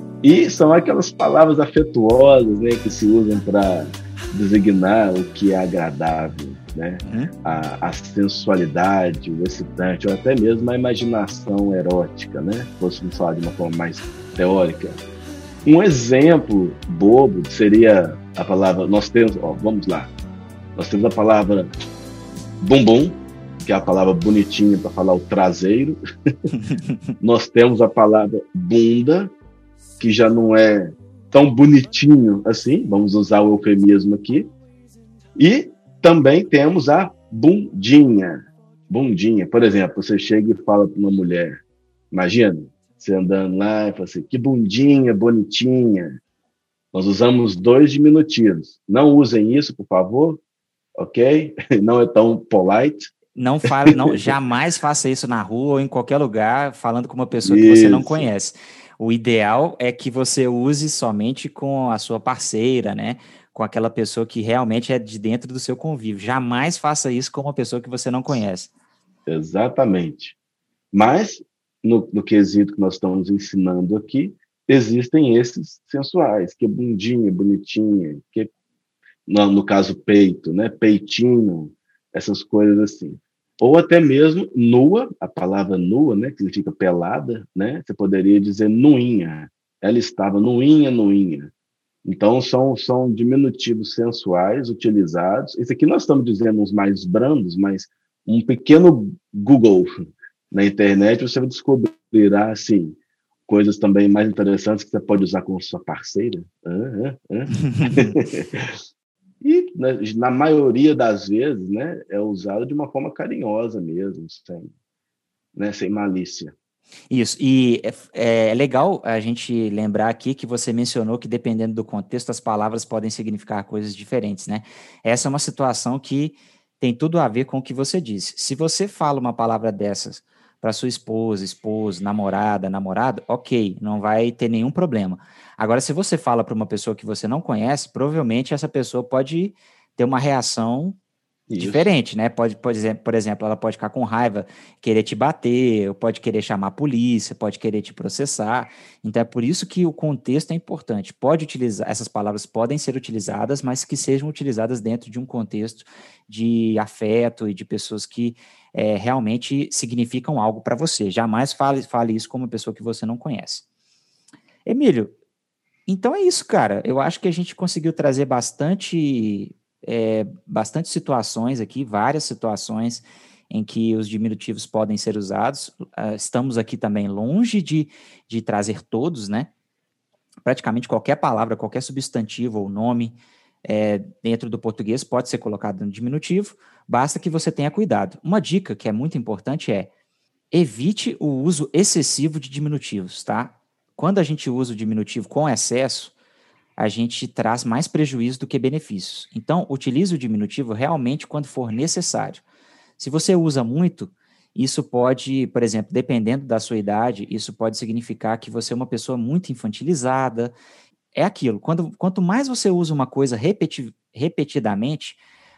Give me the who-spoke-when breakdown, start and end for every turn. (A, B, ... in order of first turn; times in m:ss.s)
0:00.2-0:15.0 A
0:07.1-0:07.3 B
0:15.6-0:20.1 A
0:20.8-0:21.7 A
0:22.6-0:26.0 A
0:26.6-0:27.0 B
0:27.2-0:29.3 A
0:30.0-0:34.5 A
0:35.4-0:46.2 A
0:46.9-0:50.4 A
0:51.0-0:53.1 A
0:53.4-1:08.7 B
0:53.7-0:54.3 A
0:57.4-0:58.3 A
1:09.3-1:10.4 A
1:10.9-1:18.5 A
1:19.3-1:31.5 A
1:32.0-1:39.9 A
1:40.5-1:48.7 A
1:47.6-1:48.2 B
1:49.4-1:54.7 A
1:55.6-1:56.5 A
1:57.1-2:21.0 B
2:21.5-2:21.9 A
2:21.6-2:43.6 B
2:44.7-2:45.1 B
2:45.9-2:59.5 B
3:00.4-3:09.9 B
3:10.5-3:16.1 B
3:16.8-3:22.4 B
3:23.0-3:30.5 B
3:31.2-3:35.2 B